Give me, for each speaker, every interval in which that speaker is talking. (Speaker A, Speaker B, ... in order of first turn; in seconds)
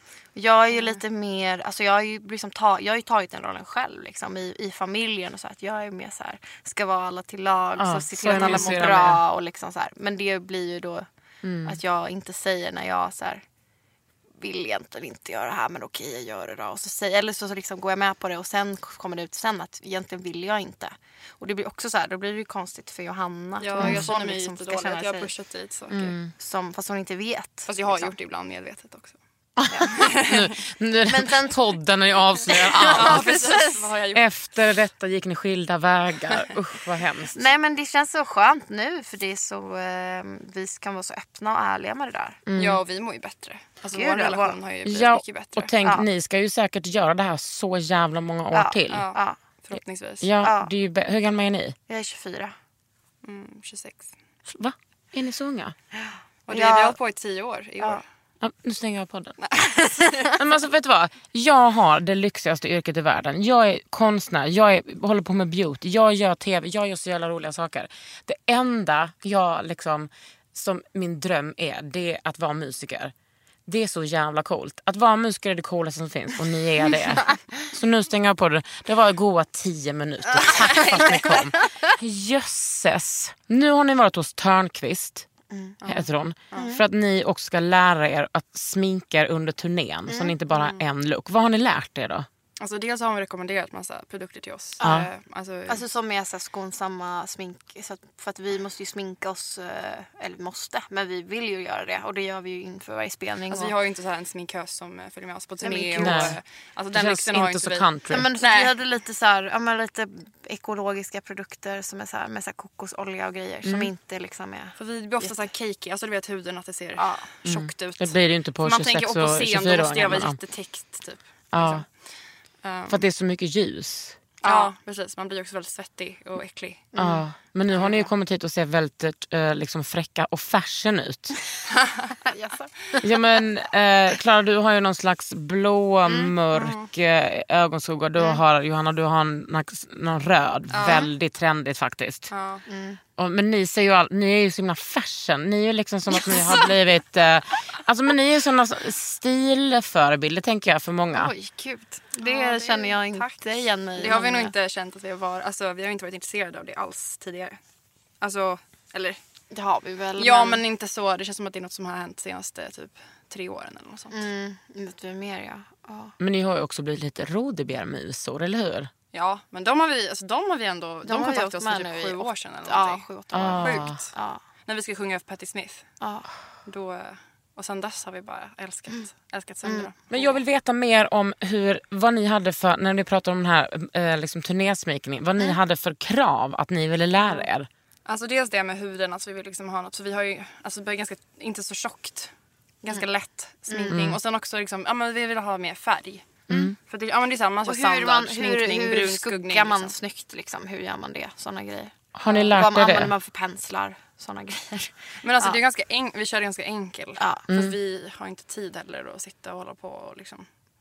Speaker A: 0.3-11.1, 11.6-13.4, 14.4-25.3, 26.4-28.1, 29.7-30.1, 31.1-31.6, 32.8-33.8, 37.3-42.4, 43.9-44.6, 48.5-49.4, 50.4-50.7, 51.9-52.5, 56.0-57.0, 80.4-81.3, 85.5-85.8, 86.5-86.8, 90.1-90.3, 94.8-95.1, 95.7-103.7, 105.6-106.4, 108.1-115.5, 117.0-117.2, 124.4-124.7, 126.9-127.2, 136.1-136.3, 142.7-143.0, 146.3-146.6, 152.2-154.5, 159.5-160.6, 164.1-166.1, 171.1-174.4, 176.0-176.3, 179.6-179.9, 193.7-194.0, 197.7-201.9, 202.5-205.6
Speaker B: 0.7-1.0, 8.3-8.9, 23.6-26.1, 27.7-29.2, 29.9-30.4, 32.9-34.3, 42.5-45.7, 48.9-50.3, 53.2-54.1, 56.5-58.0, 59.4-60.3, 85.8-86.7, 90.5-90.8, 92.6-95.8, 103.5-108.7, 114.8-121.9, 122.6-123.0, 124.4-126.9, 127.7-128.1, 131.9-132.7, 136.5-136.9, 140.7-141.1, 142.3-142.6, 151.1-157.6, 158.2-159.2, 160.2-164.2, 169.1-174.1, 174.7-175.9, 176.7-180.4, 188.1-192.3, 192.8-199.9, 202.3-202.6, 205.2-210.4
Speaker C: 7.8-9.2, 11.4-11.8, 23.8-24.1, 25.9-26.3, 29.6-33.4, 34.1-37.4, 42.5-42.8, 44.8-49.1, 49.7-51.8, 54.5-55.7, 58.4-59.4, 60.3-73.1, 73.7-85.3, 85.8-92.3, 94.8-95.1, 106.0-106.4, 106.9-108.3, 113.6-113.9, 117.4-120.4, 121.5-121.8, 122.9-124.2, 127.0-131.4, 133.0-142.3, 143.2-151.3, 166.2-168.9, 173.3-174.0, 180.1-187.7, 193.9-194.2, 196.5-196.8, 202.1-203.1, 207.5-207.8